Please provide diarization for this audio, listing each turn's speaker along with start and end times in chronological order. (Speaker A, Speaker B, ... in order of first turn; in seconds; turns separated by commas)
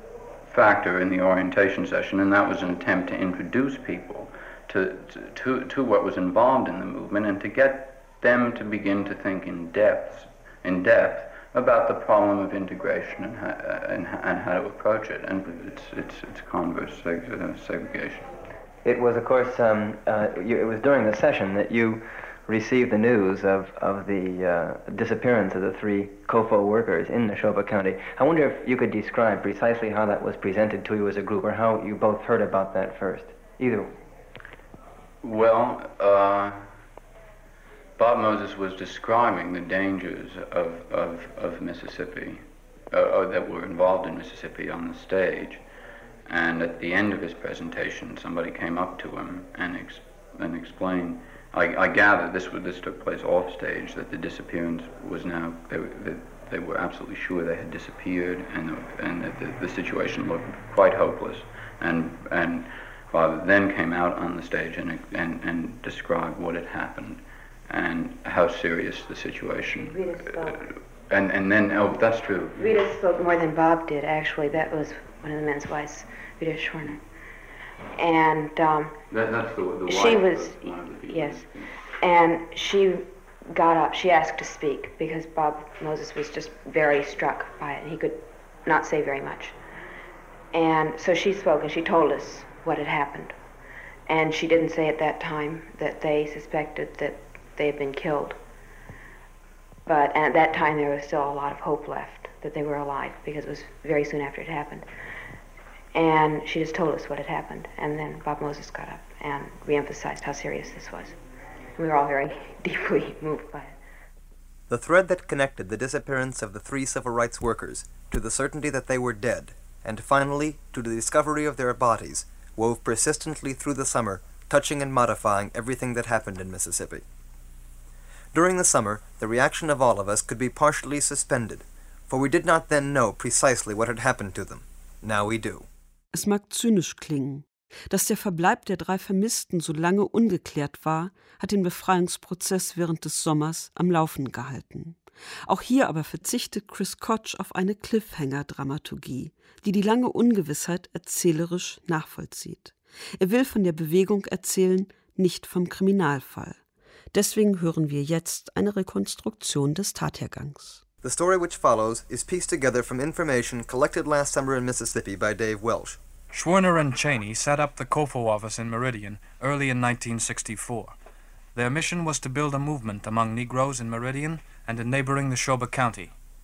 Speaker A: 0.5-18.3, Speaker B: 18.8-33.9, Speaker A: 35.2-36.6, Speaker A: 38.0-45.6, Speaker A: 46.3-70.5, Speaker C: 69.9-70.6, Speaker A: 71.1-72.7, Speaker C: 72.5-77.0, Speaker C: 78.0-79.0, Speaker A: 79.1-81.7, Speaker C: 79.8-81.5, Speaker C: 82.0-89.6, Speaker C: 90.5-93.3, Speaker C: 94.1-98.4, Speaker C: 99.8-104.8, Speaker C: 105.9-111.2, Speaker C: 111.8-113.7, Speaker D: 114.7-127.0, Speaker D: 128.3-135.7, Speaker E: 136.1-156.6, Speaker E: 157.1-160.8, Speaker D: 161.0-166.0, Speaker F: 166.3-170.9, Speaker F: 171.5-176.1